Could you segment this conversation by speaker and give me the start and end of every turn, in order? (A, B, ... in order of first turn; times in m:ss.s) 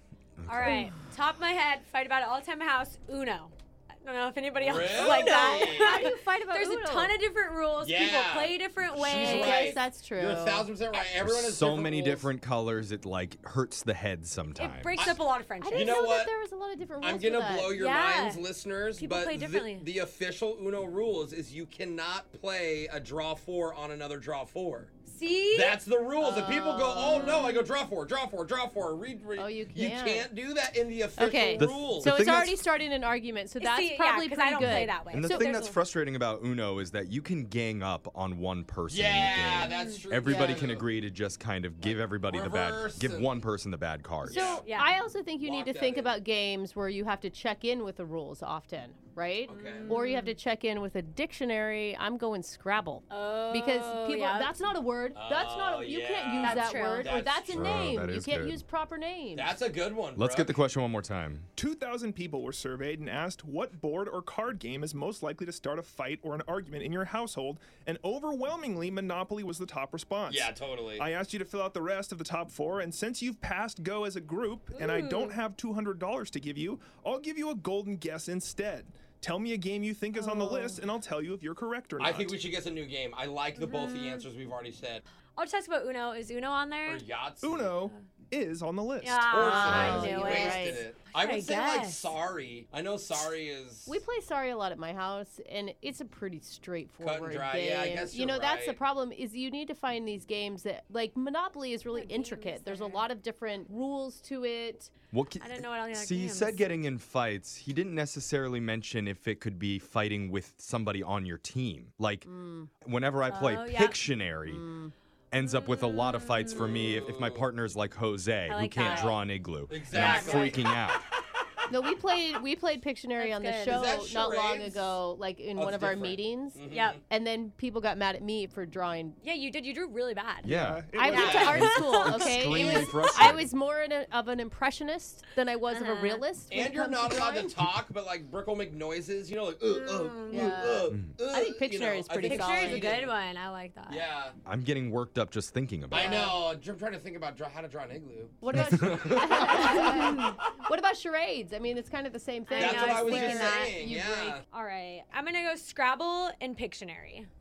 0:00.4-0:00.9 A
0:00.5-0:09.8 B
0:04.6-0:06.0 C
0:05.1-0:07.2 D
0:07.8-0:12.3 C
0:09.2-0:10.7 D
0:11.2-0:15.1 A
0:14.6-0:16.0 B
0:15.0-0:16.3 C
0:15.6-0:17.8 D
0:17.0-0:24.9 C
0:17.7-0:19.9 B
0:25.1-0:25.8 B
0:25.5-0:32.1 C
0:26.2-0:27.4 D
0:27.0-0:27.5 B
0:29.4-0:30.3 D
0:31.2-0:35.5 D
0:31.6-0:32.7 A
0:33.6-0:35.8 B
0:34.6-0:44.6 A
0:38.9-0:40.9 C
0:39.6-0:40.0 B
0:40.3-0:40.6 D
0:41.8-0:43.4 C
0:44.2-0:44.8 C
0:44.3-0:59.5 D
0:44.6-0:44.9 B
0:45.4-0:46.2 C
0:49.5-0:50.0 C
0:49.6-0:50.4 B
0:53.1-0:54.6 B
0:55.2-0:58.0 C
0:56.4-0:57.1 B
0:57.5-0:58.6 A
0:59.4-1:00.6 C
1:00.2-1:01.5 A
1:01.6-1:22.5 E
1:10.3-1:11.1 C
1:14.7-1:15.4 B
1:20.2-1:20.8 D
1:22.0-1:25.0 C
1:23.6-1:24.2 B
1:25.4-1:27.0 B
1:26.8-1:27.7 C
1:27.4-1:29.8 E
1:29.0-1:32.1 B
1:29.3-1:34.0 C
1:29.4-1:30.8 D
1:29.7-1:30.0 A
1:33.9-1:44.9 D
1:37.0-1:38.8 C
1:41.9-1:43.1 B
1:45.1-1:52.3 A
1:45.4-1:46.7 B
1:52.2-1:52.7 D
1:52.8-1:54.7 A
1:53.3-1:54.0 B
1:54.5-1:54.9 D
1:55.3-2:01.0 A
1:55.4-1:56.9 B
1:56.4-1:57.5 C
1:58.5-1:59.2 B
1:58.8-2:00.7 C
1:59.9-2:00.6 B
2:01.7-2:09.2 D
2:03.2-2:03.9 B
2:03.6-2:05.0 C
2:05.6-2:07.0 C
2:06.7-2:07.0 B
2:09.2-2:12.3 B
2:10.4-2:13.5 A
2:10.5-2:11.7 E
2:10.9-2:17.6 D
2:11.1-2:11.6 C
2:12.5-2:12.9 C
2:15.7-2:16.2 B
2:16.5-2:23.1 C
2:19.6-2:20.6 B
2:20.3-2:23.0 D
2:22.2-2:24.0 B
2:23.9-2:24.4 C
2:24.5-2:26.3 A
2:25.9-2:26.4 D
2:25.9-2:30.1 C
2:28.4-2:34.4 D
2:28.5-2:29.2 A
2:32.5-2:33.8 B
2:32.5-2:34.4 C
2:34.5-2:37.3 B